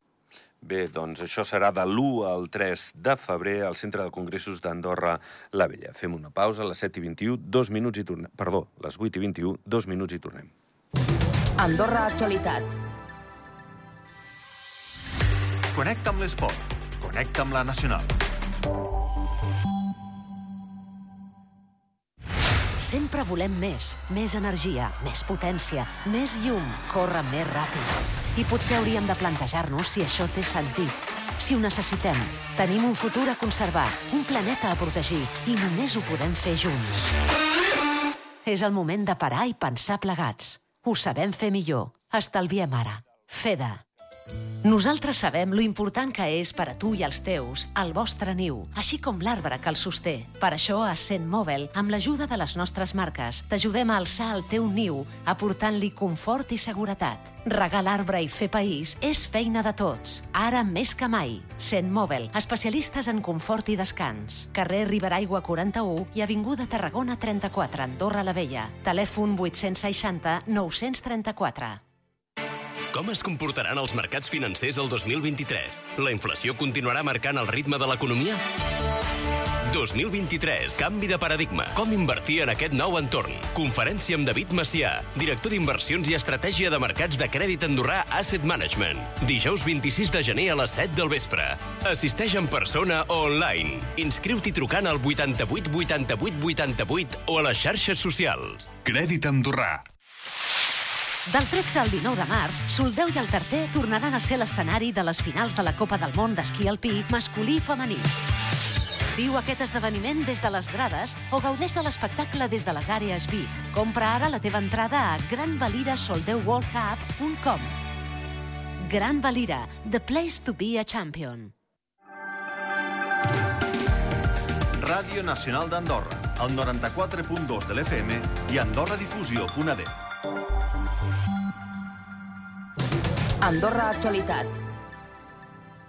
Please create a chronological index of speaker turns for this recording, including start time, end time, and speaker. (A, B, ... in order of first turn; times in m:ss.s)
0:00.6-0:10.5 A
0:11.6-0:12.7 B
0:15.7-0:18.2 C
0:22.8-0:37.1 D
0:38.4-0:43.8 D
0:44.6-1:11.8 D
1:12.9-1:18.4 E
1:19.7-1:38.9 E
1:38.8-1:39.8 C
1:41.3-1:48.1 D
1:49.1-1:57.8 D
1:58.8-2:01.5 D
2:04.8-2:10.0 C
2:13.4-2:14.5 B